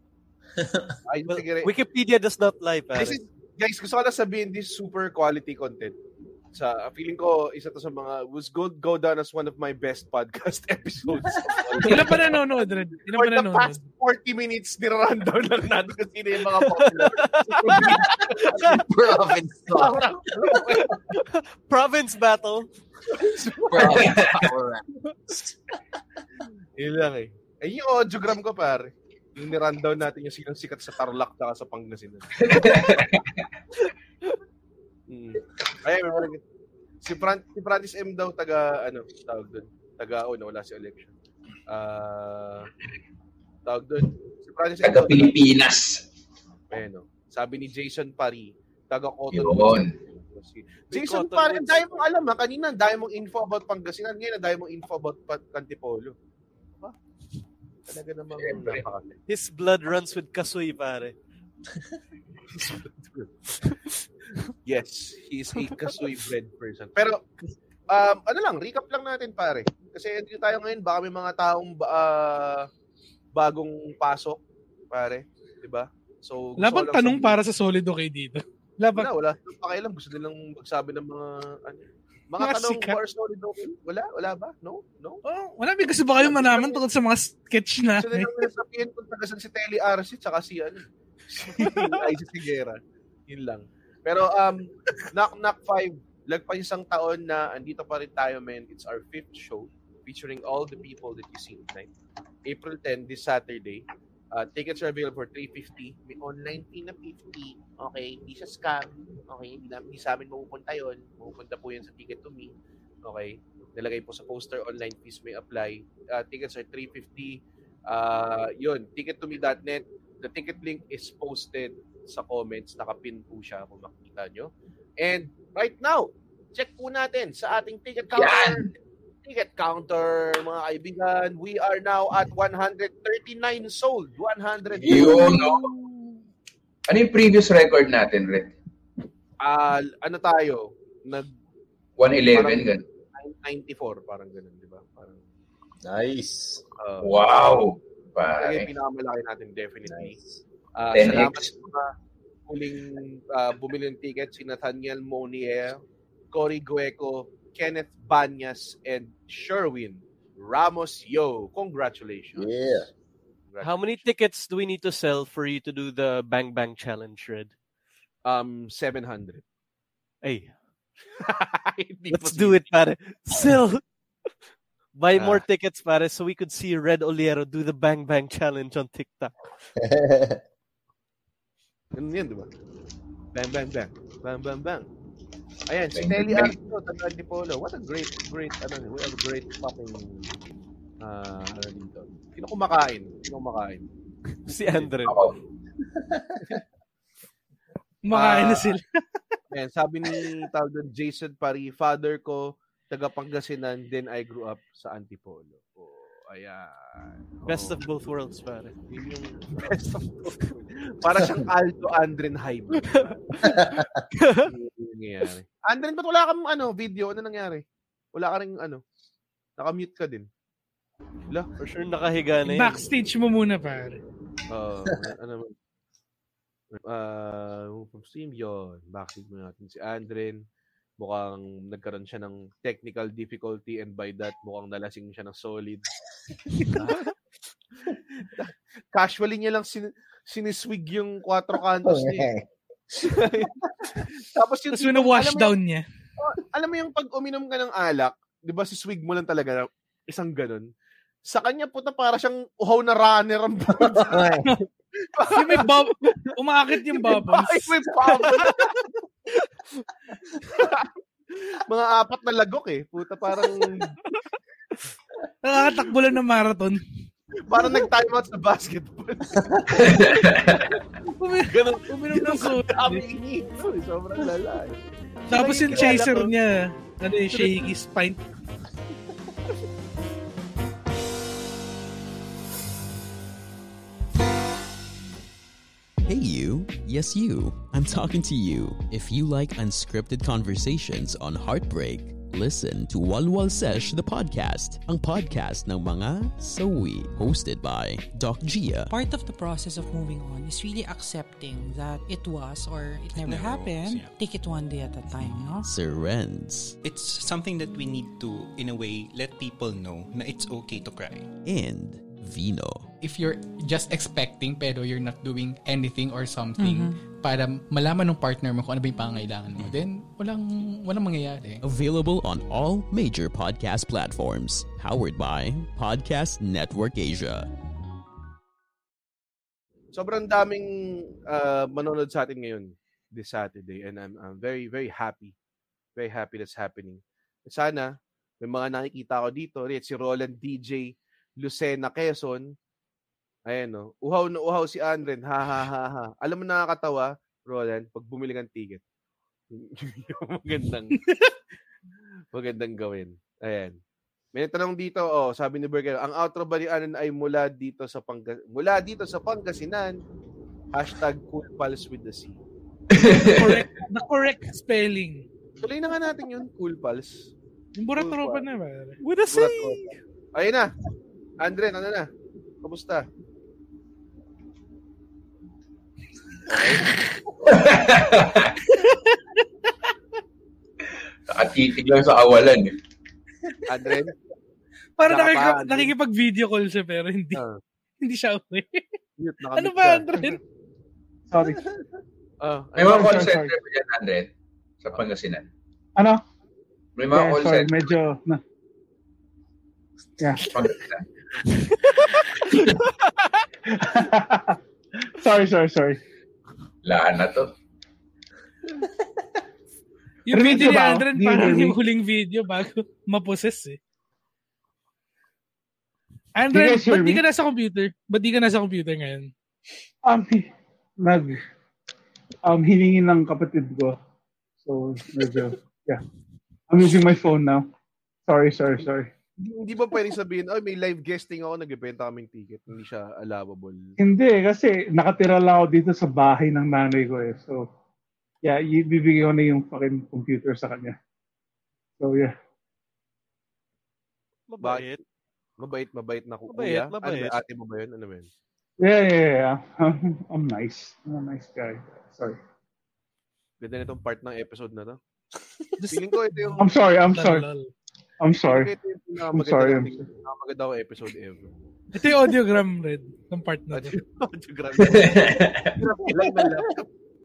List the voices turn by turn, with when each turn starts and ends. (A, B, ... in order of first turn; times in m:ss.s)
0:01.1-0:01.7 A
0:01.3-0:03.2 B
0:02.9-0:06.0 A
0:06.5-0:18.8 A
0:11.8-0:13.8 C
0:16.6-0:18.8 B
0:18.6-0:20.0 D
0:19.7-0:21.0 A
0:21.1-0:22.7 B
0:23.1-0:25.5 D
0:23.8-0:24.5 E
0:26.8-0:32.8 A
0:32.4-0:33.3 E
0:35.1-0:36.4 A
0:37.0-0:41.1 A
0:41.7-0:42.7 A
0:43.6-0:45.4 A
0:44.8-0:46.0 E
0:46.7-0:56.1 A
0:49.3-0:50.0 E
0:50.9-0:51.9 B
0:57.9-0:59.2 A
0:58.3-0:58.8 E
0:59.3-1:01.1 B
1:02.5-1:03.3 A
1:04.6-1:07.2 A
1:05.6-1:06.1 B
1:07.9-1:12.7 A
1:13.3-1:14.4 A
1:14.9-1:17.4 A
1:16.6-1:19.1 C
1:18.9-1:25.2 A
1:22.4-1:23.0 C
1:25.2-1:28.3 C
1:26.2-1:26.8 A
1:28.0-1:32.8 A
1:33.3-1:41.9 A
1:42.4-2:08.7 A
2:08.1-2:08.7 E
2:09.2-2:15.4 A
2:14.8-2:15.7 E
2:16.9-2:18.5 E
2:19.4-2:21.3 A
2:22.0-2:22.8 E
2:22.3-2:25.2 A
2:25.8-2:26.6 D
2:26.8-2:27.6 A
2:27.0-2:28.7 E
2:28.4-2:30.1 A
2:29.8-2:30.4 D
2:30.8-2:31.9 A
2:30.9-2:31.5 E
2:32.5-2:35.8 A
2:36.3-2:42.6 A
2:42.4-2:42.9 D
2:43.5-2:43.8 A
2:43.6-2:47.5 B
2:48.2-2:49.4 A
2:50.2-2:50.5 B
2:51.2-2:52.6 A
2:52.1-2:53.8 B
2:55.0-2:59.3 B
2:55.2-2:55.4 A
2:59.8-3:00.4 D
3:01.9-3:02.5 A
3:03.3-3:04.9 A
3:05.7-3:10.0 A
3:05.9-3:06.6 E
3:11.0-3:13.8 A
3:14.5-3:15.1 B
3:15.0-3:15.4 E
3:18.0-3:18.8 C
3:18.1-3:18.8 A
3:19.5-3:27.8 A
3:27.5-3:28.8 B
3:28.9-3:33.2 A
3:32.8-3:34.5 B
3:33.4-3:34.0 D
3:34.4-3:37.6 A
3:38.1-3:38.8 A
3:39.6-3:40.3 A
3:41.6-3:42.8 B
3:42.4-3:44.0 C
3:44.5-3:45.5 A
3:46.7-3:50.4 A
3:51.0-3:55.8 A
3:58.3-4:02.3 A
4:01.8-4:03.6 D
4:03.0-4:03.5 A
4:04.3-4:05.6 A
4:04.7-4:05.8 C
4:06.2-4:10.7 A
4:11.3-4:14.3 A
4:13.8-4:14.4 D
4:15.2-4:15.8 A
4:15.3-4:17.7 C
4:16.9-4:18.8 A
4:20.5-4:20.9 A
4:21.7-4:23.9 A
4:25.4-4:26.8 C
4:27.5-4:30.8 A
4:29.8-4:30.7 E
4:31.2-4:33.0 C
4:31.5-4:36.3 A
4:35.3-4:38.2 C
4:46.0-4:58.9 F
4:58.9-5:05.7 G
5:03.1-5:04.1 H
5:05.6-5:06.8 F
5:06.8-5:11.3 H
5:11.4-5:12.9 F
5:13.0-5:21.6 I
5:21.6-5:27.5 F
5:29.9-5:35.3 A
5:36.0-5:42.5 A
5:43.5-5:48.8 A
5:49.5-5:51.0 A
5:51.0-5:51.3 C
5:52.3-5:53.8 A
5:54.3-6:00.0 A
6:00.7-6:02.4 A
6:02.9-6:03.6 E
6:03.3-6:05.2 C
6:05.6-6:07.3 A
6:07.8-6:09.0 C
6:07.9-6:08.4 A
6:09.0-6:10.0 B
6:09.3-6:09.8 A
6:10.3-6:10.7 A
6:11.4-6:12.1 A
6:12.6-6:13.1 A
6:16.5-6:16.9 A
6:17.4-6:18.5 E
6:18.8-6:19.2 C
6:21.3-6:22.7 E
6:23.7-6:24.1 A
6:25.0-6:27.4 C
6:25.0-6:25.9 A
6:28.0-6:28.8 C
6:29.2-6:30.4 A
6:29.6-6:30.4 C
6:31.3-6:31.6 J
6:32.4-6:33.2 A
6:32.8-6:34.3 E
6:32.9-6:33.5 J
6:34.8-6:35.4 E
6:36.0-6:36.2 J
6:37.0-6:37.9 E
6:37.1-6:38.4 J
6:40.2-6:40.4 J
6:40.5-6:41.0 E
6:43.7-6:44.6 J
6:45.2-6:46.0 J
6:46.8-6:47.5 E
6:50.3-6:53.8 C
6:50.3-6:51.8 J
6:56.4-6:59.3 C
6:56.5-6:57.2 J
7:00.0-7:00.5 J
7:01.0-7:01.4 J
7:02.4-7:04.0 J
7:04.6-7:06.0 J
7:06.7-7:07.7 J
7:08.3-7:09.1 J
7:09.4-7:13.9 A
7:14.0-7:17.6 J
7:18.4-7:21.0 J
7:22.0-7:22.3 J
7:24.5-7:25.0 B
7:24.6-7:24.9 A
7:25.6-7:28.3 A
7:26.5-7:27.4 B
7:28.8-7:32.4 J
7:33.6-7:35.0 A
7:35.8-7:37.7 C
7:35.9-7:36.6 A
7:36.6-7:37.4 J
7:38.2-7:38.7 J
7:38.5-7:41.5 A
7:39.3-7:40.0 J
7:41.9-7:43.9 C
7:43.7-7:46.9 A
7:44.8-7:45.8 E